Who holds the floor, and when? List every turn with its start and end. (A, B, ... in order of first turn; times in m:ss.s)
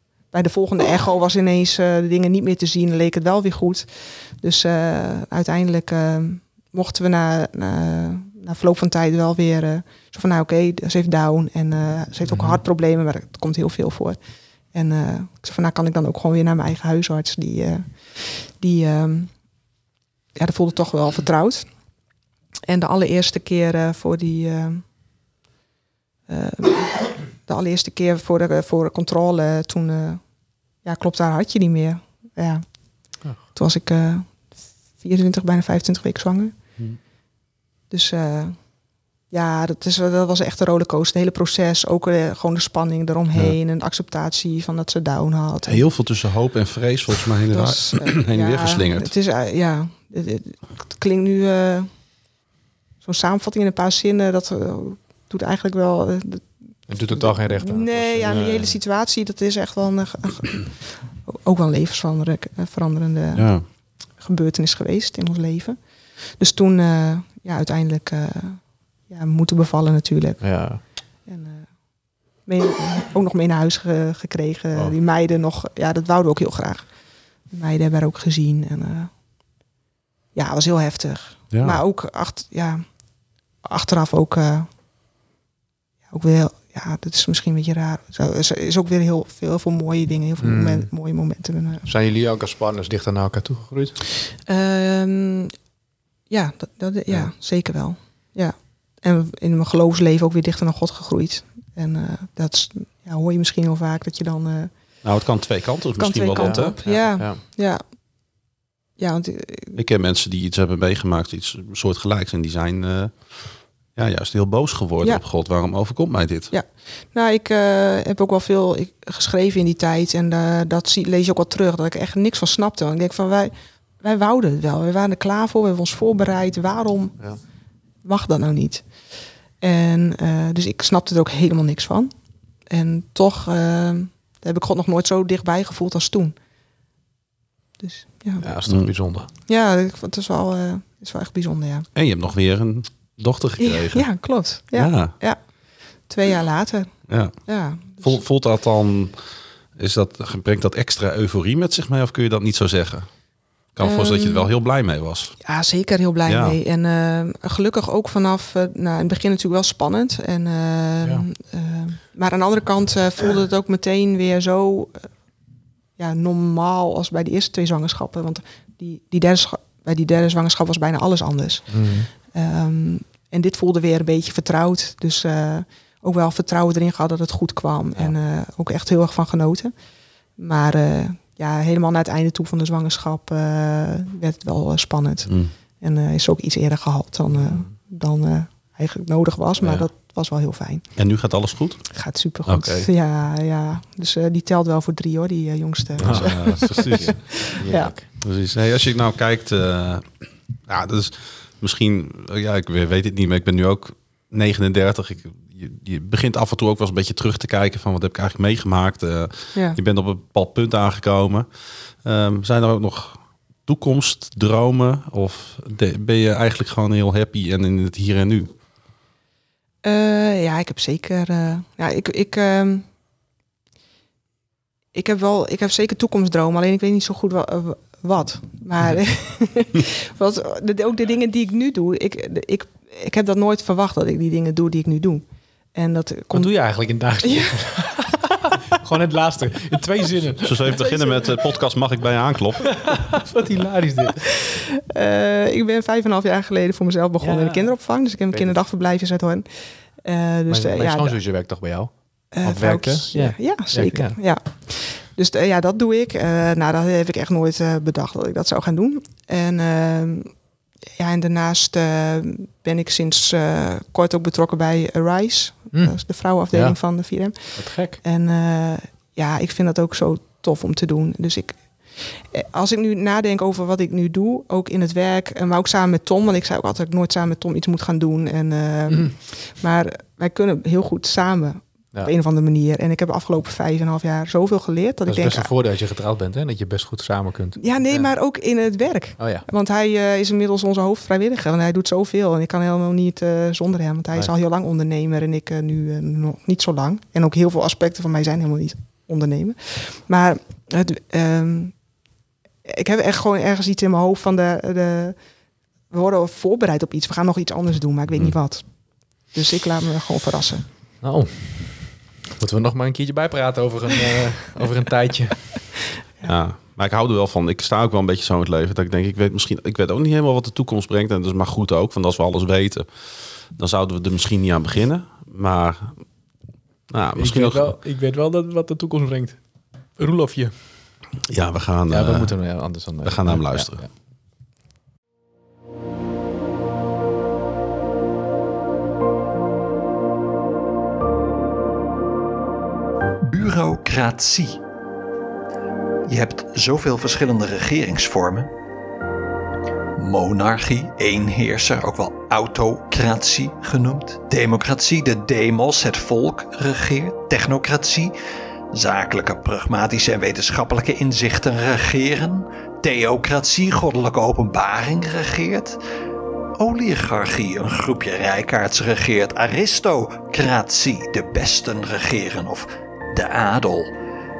0:00.3-0:14.2 A
0:12.3-0:12.6 B
0:14.7-0:19.3 A
0:20.4-0:21.7 A
0:22.7-0:24.8 A
0:26.3-0:30.3 A
0:30.8-0:32.7 A
0:33.6-0:36.6 A
0:37.9-0:38.6 A
0:39.3-0:45.9 A
0:45.7-0:49.1 C
0:47.5-0:51.9 A
0:53.0-0:56.5 A
0:56.9-0:58.7 B
0:57.0-1:03.5 A
1:03.4-1:03.6 C
1:04.2-1:05.8 A
1:06.4-1:10.7 A
1:10.4-1:10.8 B
1:11.2-1:11.7 A
1:12.5-1:16.9 A
1:17.5-1:19.1 A
1:20.4-1:22.9 A
1:21.5-1:21.8 C
1:23.6-1:24.7 A
1:26.1-1:31.8 A
1:30.4-1:30.9 B
1:31.9-1:34.0 B
1:34.5-1:35.5 A
1:36.3-1:44.7 A
1:45.0-1:46.8 C
1:46.0-1:47.8 A
1:46.4-1:47.4 B
1:49.0-1:49.8 A
1:49.8-1:53.3 C
1:53.9-1:56.5 C
1:56.5-2:07.2 A
2:08.0-2:08.9 A
2:09.6-2:12.1 A
2:12.7-2:16.4 A
2:17.8-2:18.5 A
2:18.4-2:19.3 B
2:19.5-2:21.9 A
2:22.0-2:24.1 C
2:23.6-2:25.4 A
2:24.7-2:25.1 C
2:26.1-2:26.9 A
2:27.1-2:27.4 C
2:27.5-2:28.2 A
2:27.9-2:29.2 C
2:29.8-2:33.1 C
2:33.7-2:35.4 C
2:33.8-2:34.5 A
2:35.4-2:45.1 A
2:36.3-2:36.6 C
2:46.0-2:59.7 A
2:51.7-2:52.1 B
3:00.4-3:10.8 A
3:05.3-3:05.5 C
3:07.3-3:07.7 B
3:11.0-3:11.8 C
3:11.9-3:17.9 A
3:12.4-3:12.8 C
3:16.0-3:18.1 B
3:16.0-3:17.3 C
3:18.2-3:20.1 C
3:20.6-3:31.5 C
3:32.0-3:38.5 C
3:39.8-3:42.9 A
3:44.9-3:55.2 A
3:55.8-3:56.5 A
3:56.3-4:00.6 B
3:57.2-3:58.0 A
4:00.4-4:03.2 C
4:00.7-4:01.4 A
4:02.7-4:04.3 B
4:04.2-4:09.4 A
4:07.2-4:07.8 B
4:10.0-4:11.2 A
4:10.5-4:14.2 B
4:12.3-4:20.3 A
4:21.0-4:45.5 A
4:25.7-4:26.0 B
4:26.5-4:26.8 B
4:27.5-4:28.0 B
4:38.9-4:39.1 B
4:45.1-4:48.1 B
4:47.6-5:01.8 A
4:49.2-4:49.5 B
5:02.6-5:05.2 A
5:05.9-5:08.6 A
5:09.3-5:10.6 A
5:11.0-5:15.6 B
5:16.2-5:22.9 C
5:23.6-5:26.0 C
5:26.9-5:27.8 C
5:27.2-5:29.4 B
5:30.0-5:30.5 B
5:31.3-5:32.4 C
5:31.9-5:33.9 B
5:33.0-5:33.8 C
5:43.3-5:44.6 D
5:46.1-5:48.5 D
5:50.0-5:58.1 D
5:58.7-6:05.8 D
6:06.6-6:13.9 D